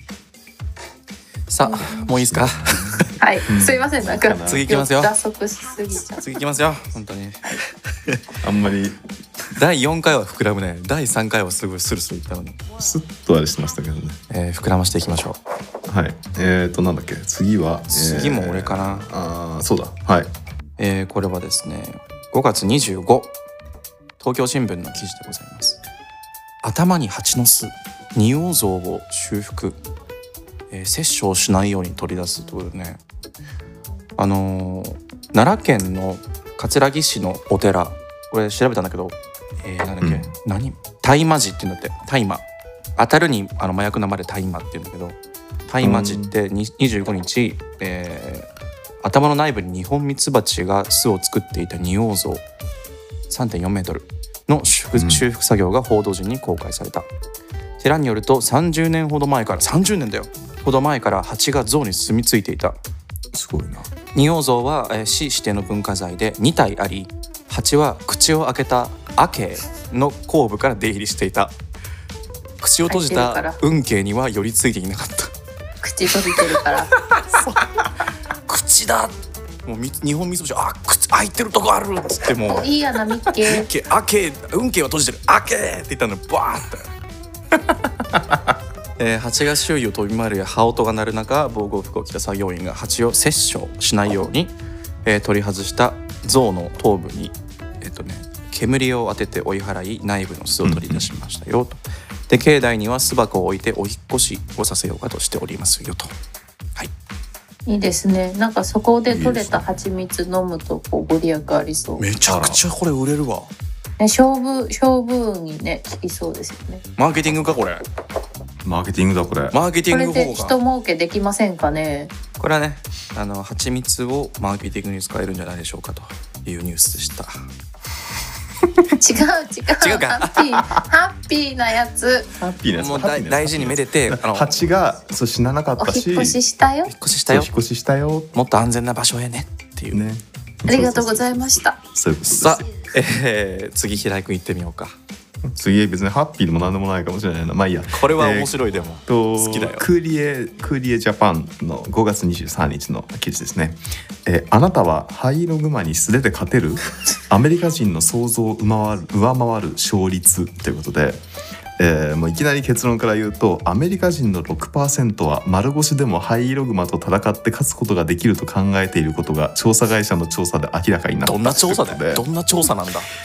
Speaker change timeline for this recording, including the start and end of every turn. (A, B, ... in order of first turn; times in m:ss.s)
0:01.5-0:03.2 A
0:01.6-0:02.1 B
0:01.8-0:04.7 C
0:03.2-0:06.3 B
0:04.4-0:05.1 A
0:06.2-0:08.4 A
0:08.4-0:09.0 C
0:09.5-0:12.6 A
0:12.8-0:14.2 C
0:14.3-0:15.4 A
0:15.9-0:20.3 C
0:17.9-0:19.1 A
0:20.8-0:23.3 A
0:24.2-0:25.8 A
0:26.6-0:29.8 A
0:30.7-0:33.0 A
0:34.2-0:42.4 A
0:40.0-0:40.3 C
0:43.0-0:48.5 A
0:45.8-0:46.3 C
0:49.0-0:52.4 A
0:53.3-0:57.1 A
0:54.9-0:55.2 C
0:57.8-1:02.8 A
1:03.3-1:03.9 C
1:04.1-1:11.5 A
1:12.6-1:15.3 A
1:12.9-1:13.6 B
1:15.8-1:16.9 B
1:16.3-1:17.6 A
1:18.5-1:22.7 A
1:22.4-1:23.7 B
1:23.3-1:26.9 A
1:29.0-1:46.1 A
1:40.6-1:41.1 C
1:47.7-1:52.0 B
1:49.1-1:49.7 C
1:52.0-1:53.5 A
1:52.2-1:52.6 C
1:54.0-1:56.8 B
1:57.0-1:57.8 A
1:58.6-1:59.6 C
1:59.5-2:00.6 A
1:59.9-2:02.1 B
2:02.4-2:07.3 A
2:09.0-2:12.3 B
2:09.8-2:10.6 A
2:12.4-2:16.4 C
2:12.7-2:14.6 A
2:15.8-2:16.9 B
2:16.9-2:17.5 A
2:17.3-2:18.3 C
2:18.3-2:20.0 A
2:19.9-2:22.7 C
2:20.7-2:21.8 B
2:22.2-2:25.0 A
2:25.4-2:41.2 C
2:27.9-2:29.9 A
2:41.8-2:52.2 C
2:51.2-2:53.1 A